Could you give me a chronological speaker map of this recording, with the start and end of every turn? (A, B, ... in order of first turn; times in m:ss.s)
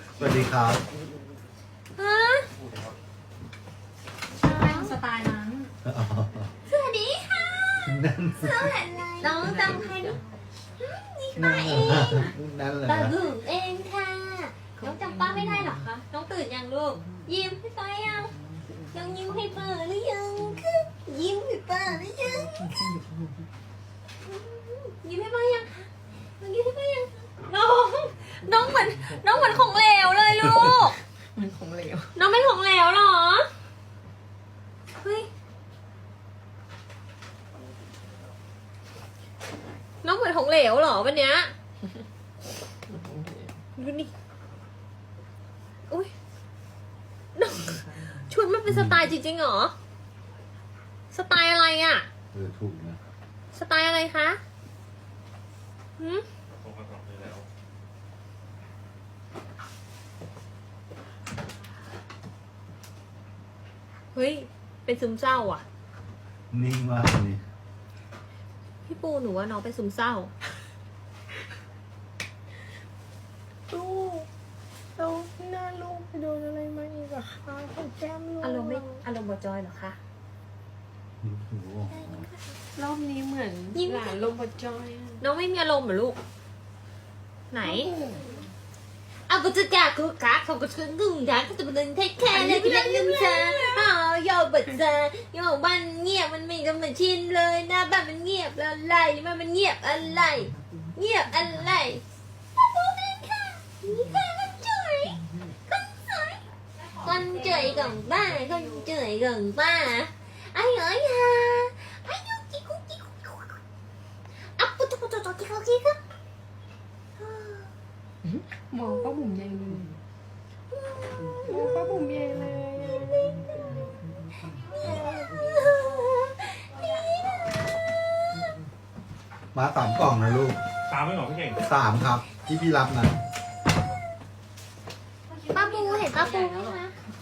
0:00.2-0:00.8 A
0:02.0-0:02.5 B
0:04.4-0:05.0 B
0:04.4-0:05.7 C
0:05.8-0:06.5 A
0:06.6-0:10.2 B
0:07.8-0:08.7 A
0:09.2-0:10.2 D
0:10.8-0:12.3 B
0:11.4-0:13.2 A
0:12.9-0:18.3 B
0:18.9-0:22.7 B
0:22.8-0:23.3 D
0:24.2-0:25.9 B
0:26.4-0:31.0 B
0:31.4-0:32.1 D
0:32.2-0:33.5 B
0:35.0-0:35.3 B
0:40.0-0:41.5 B
0:42.9-0:43.5 D
0:43.8-0:44.1 B
0:47.4-0:49.7 B
0:48.7-0:49.0 A
0:51.1-0:52.1 B
0:52.3-0:53.0 A
0:53.5-0:54.4 B
0:56.0-0:56.3 B
0:56.5-0:57.4 C
1:04.1-1:05.6 B
1:06.5-1:07.4 A
1:08.9-1:10.3 B
1:13.7-1:14.3 D
1:15.0-1:19.0 D
1:18.4-1:20.0 B
1:21.2-1:22.3 A
1:21.9-1:22.6 B
1:22.8-1:25.2 D
1:23.7-1:24.2 B
1:25.2-1:26.2 B
1:27.5-1:27.9 B
1:27.6-1:28.4 D
1:29.3-1:42.0 B
1:32.3-1:33.9 D
1:42.5-1:46.4 B
1:47.0-1:47.6 D
1:47.0-1:53.6 B
1:54.6-1:56.0 B
1:57.2-1:57.7 B
1:58.2-2:00.0 D
1:58.8-1:59.2 B
2:00.7-2:01.8 B
2:01.4-2:03.9 D
2:02.9-2:03.9 B
2:04.5-2:06.6 B
2:04.8-2:05.2 A
2:09.5-2:10.6 A
2:10.9-2:11.6 C
2:11.6-2:13.2 A
2:15.3-2:16.9 D
2:15.5-2:16.8 B